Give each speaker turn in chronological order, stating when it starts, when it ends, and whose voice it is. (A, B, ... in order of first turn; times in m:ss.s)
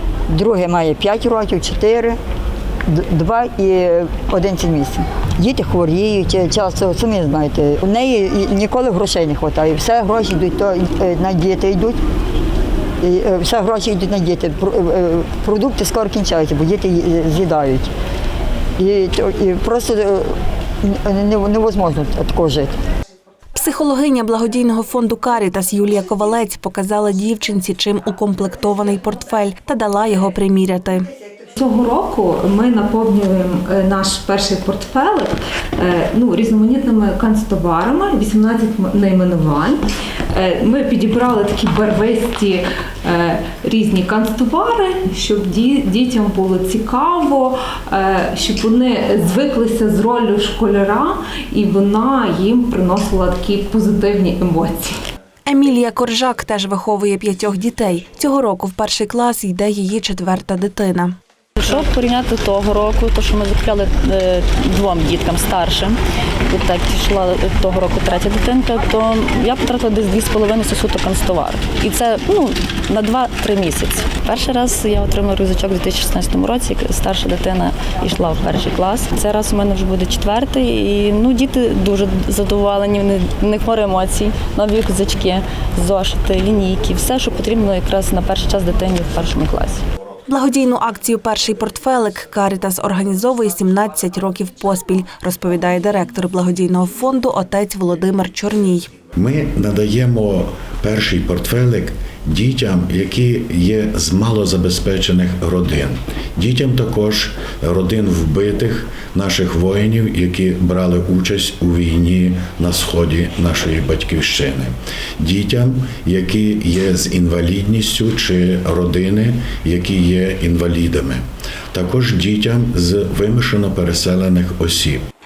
0:00.3-0:02.2 A
0:02.9-0:12.0 A
0:13.0-0:17.9 A
0:18.8-0:22.8 A
0:23.5-0:31.1 B
0:31.6-0:55.0 C
0:55.5-1:01.1 B
1:01.6-1:06.0 D
1:06.5-1:29.8 D
1:30.3-1:38.9 B
1:39.1-2:01.2 E
2:01.7-2:05.0 E